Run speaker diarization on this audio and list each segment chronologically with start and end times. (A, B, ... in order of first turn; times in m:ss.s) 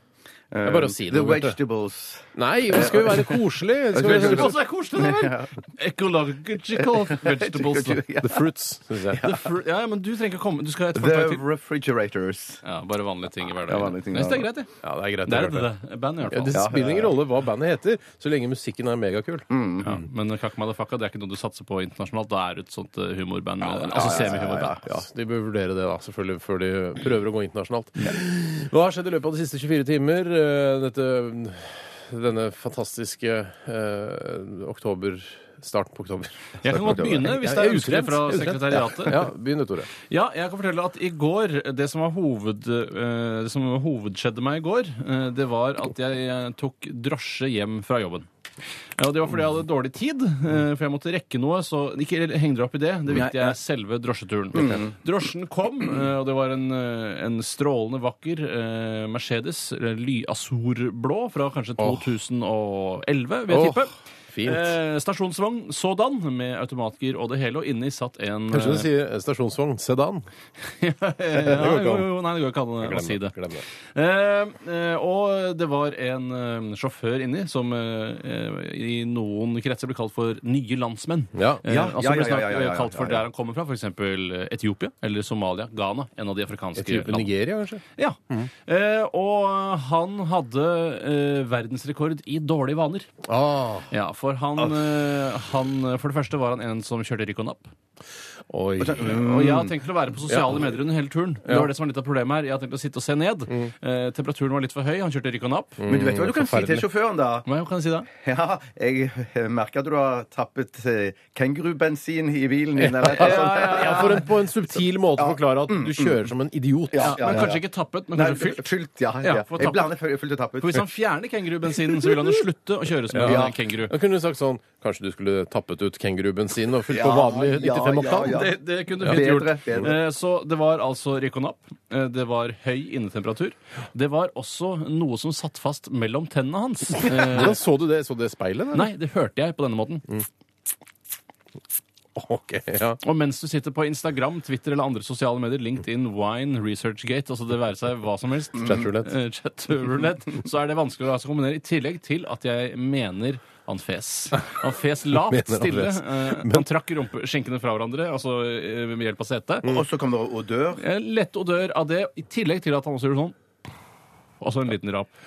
0:00.5-0:03.4 A
0:00.6-0:01.6 B
0:02.3-0:04.5 B
0:03.9-0:05.5 A
0:04.0-0:08.0 C
0:06.9-0:08.5 A
0:08.2-0:09.3 B
0:09.2-0:11.4 C
0:11.0-0:12.6 A
0:12.6-0:14.7 C
0:13.6-0:14.5 A
0:14.8-0:15.7 B
0:15.3-0:16.6 C
0:16.2-0:19.9 B
0:16.5-0:17.2 A
0:19.5-0:20.0 A
0:19.8-0:24.8 C
0:23.7-0:25.0 A
0:24.0-0:39.9 B
0:36.6-0:39.2 C
0:36.7-0:37.3 A
0:40.1-0:48.3 C
0:49.0-1:03.9 C
0:53.1-0:53.6 A
0:54.5-0:54.9 A
1:03.5-1:04.8 B
1:04.4-1:08.9 C
1:08.5-1:10.3 B
1:10.7-1:13.4 C
1:11.4-1:12.1 B
1:12.8-1:13.6 B
1:14.0-1:27.3 C
1:21.3-1:21.6 B
1:21.7-1:23.2 A
1:26.8-1:28.5 B
1:28.0-1:33.1 C
1:33.2-1:33.9 B
1:33.9-1:37.7 C
1:38.5-1:39.1 B
1:38.8-1:39.7 A
1:39.0-1:45.8 C
1:40.3-1:40.7 B
1:41.4-1:41.7 B
1:45.8-1:46.9 B
1:45.9-1:47.5 A
1:47.4-1:48.1 C
1:48.1-1:54.2 A
1:53.0-1:54.2 C
1:53.1-1:57.5 B
1:55.2-1:56.2 A
1:56.9-1:57.6 A
1:57.0-1:58.7 C
1:58.2-2:00.8 A
1:59.2-1:59.9 C
2:00.6-2:04.0 C
2:03.1-2:08.5 B
2:03.2-2:03.5 A
2:06.9-2:10.0 A
2:08.1-2:17.6 C
2:17.0-2:18.9 B
2:18.7-2:20.1 C
2:22.2-2:23.0 B
2:23.0-2:39.7 C
2:28.6-2:29.1 B
2:35.1-2:36.7 B
2:39.6-2:40.8 A
2:40.8-2:43.4 C
2:44.4-2:45.1 C